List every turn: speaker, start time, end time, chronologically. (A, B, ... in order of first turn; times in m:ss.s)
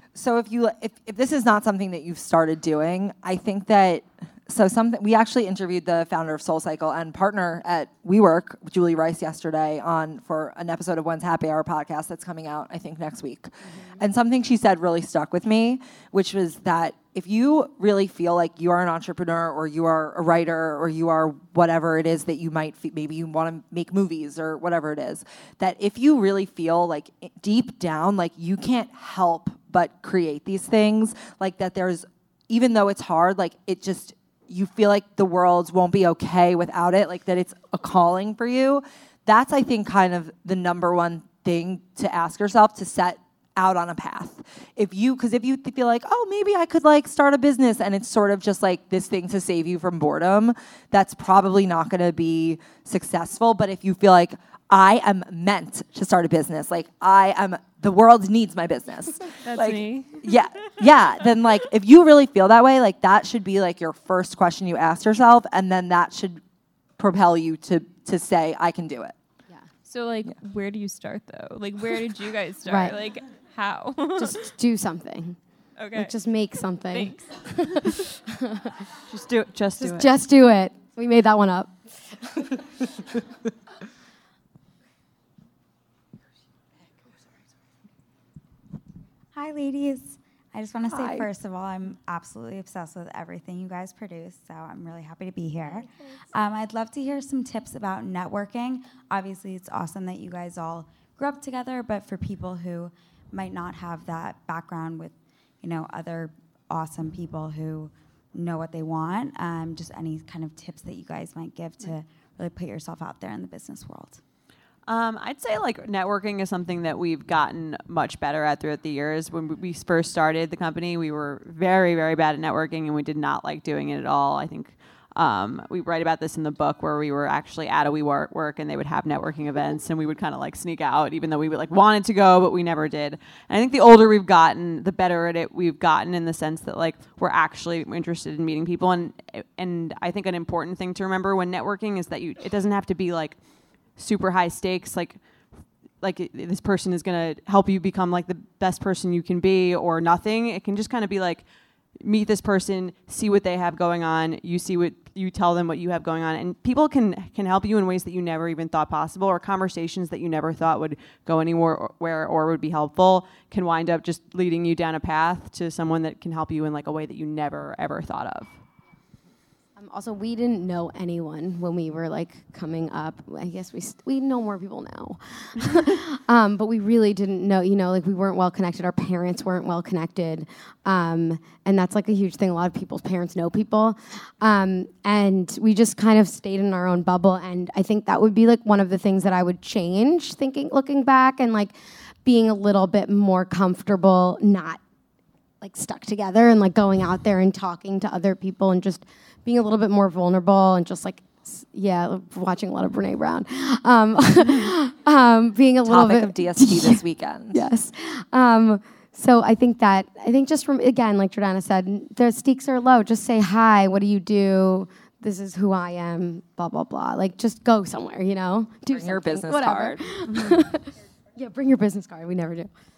0:00.1-1:06.4 A
0:13.6-0:14.0 B
0:59.4-1:00.2 C
1:07.0-1:09.1 A
1:09.8-1:14.5 C
1:12.6-1:13.0 B
1:14.1-1:15.4 B
1:15.8-1:16.1 C
1:15.9-1:18.7 B
1:16.9-1:18.0 C
1:19.1-1:20.1 D
1:19.8-1:22.4 B
1:29.3-1:54.2 E
1:30.9-1:31.2 A
1:54.9-2:23.4 D
2:23.9-2:25.2 D
2:26.0-2:31.4 D
2:32.0-2:48.5 D
2:49.8-3:14.8 B
3:15.6-3:27.0 B
3:25.8-3:27.6 A
3:27.5-3:42.7 B
3:38.9-3:40.0 A